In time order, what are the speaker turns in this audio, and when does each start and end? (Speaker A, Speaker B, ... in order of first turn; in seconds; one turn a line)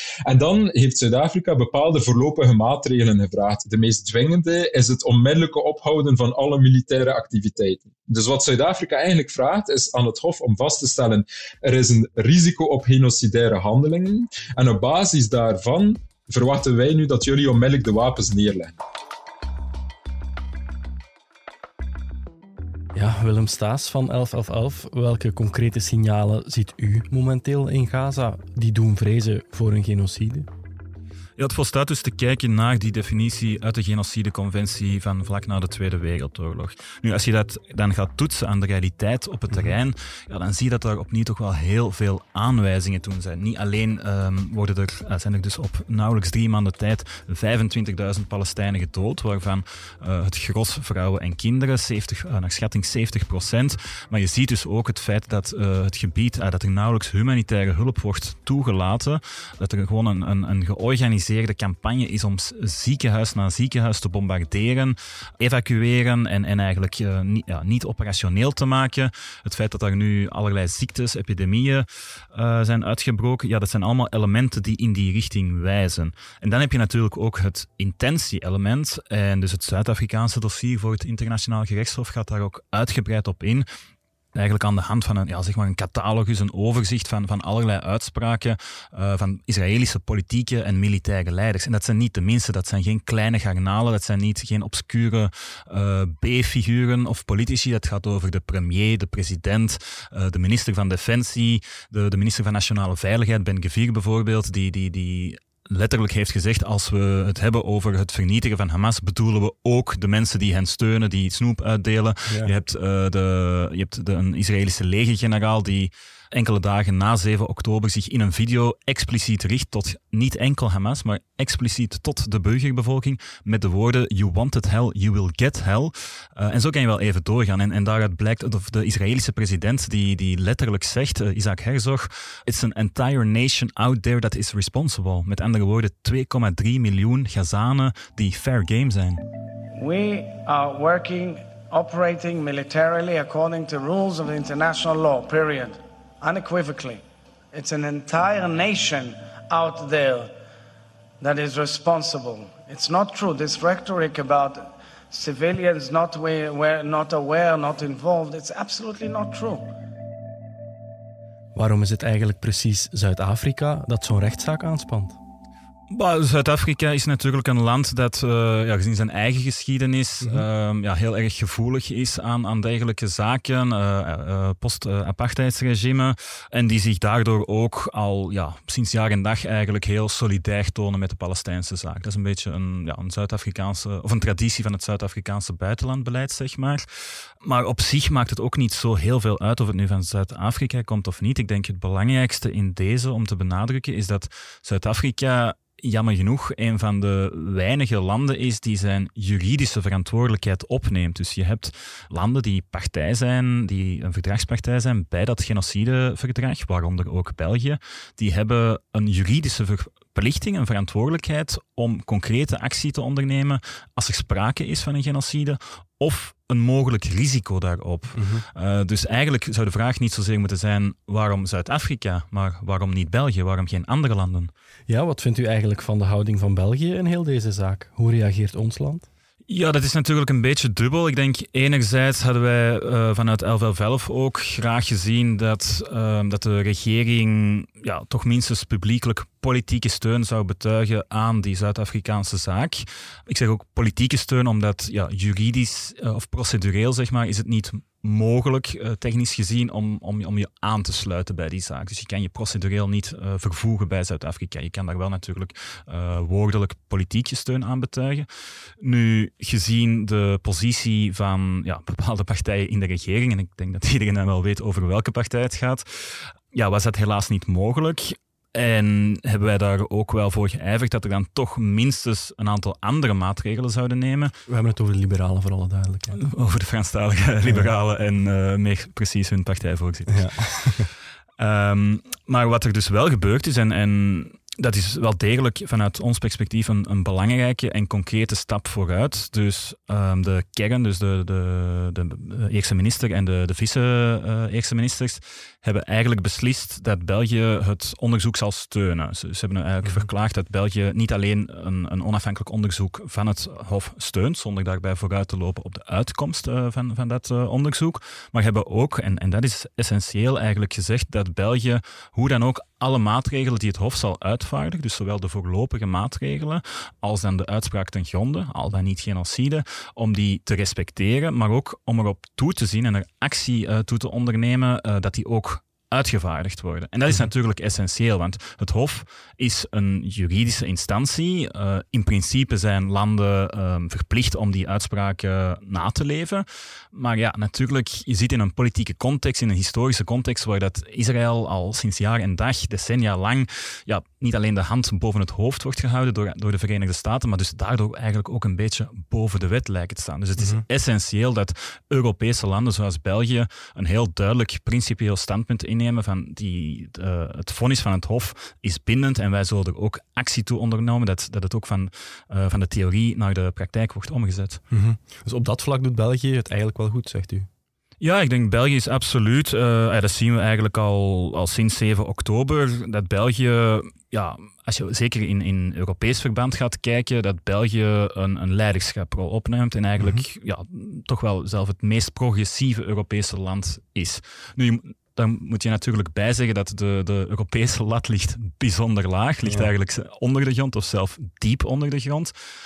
Speaker A: 0.2-18.8
Speaker B: 22.9-30.5
Speaker C: 31.4-83.7
Speaker C: 84.3-139.2
Speaker D: 139.8-147.0
Speaker D: 147.5-150.3
Speaker D: 151.2-159.7
Speaker B: 161.6-165.2
Speaker C: 165.9-186.9
Speaker C: 187.4-224.5
Speaker B: 218.1-218.4
Speaker B: 224.9-229.1
Speaker C: 229.5-258.3
Speaker C: 258.8-274.3
Speaker B: 274.5-276.2
Speaker C: 276.1-280.8
Speaker B: 280.1-280.9
Speaker C: 281.4-364.6
Speaker B: 364.7-367.5
Speaker C: 368.0-392.3
Speaker B: 380.0-380.2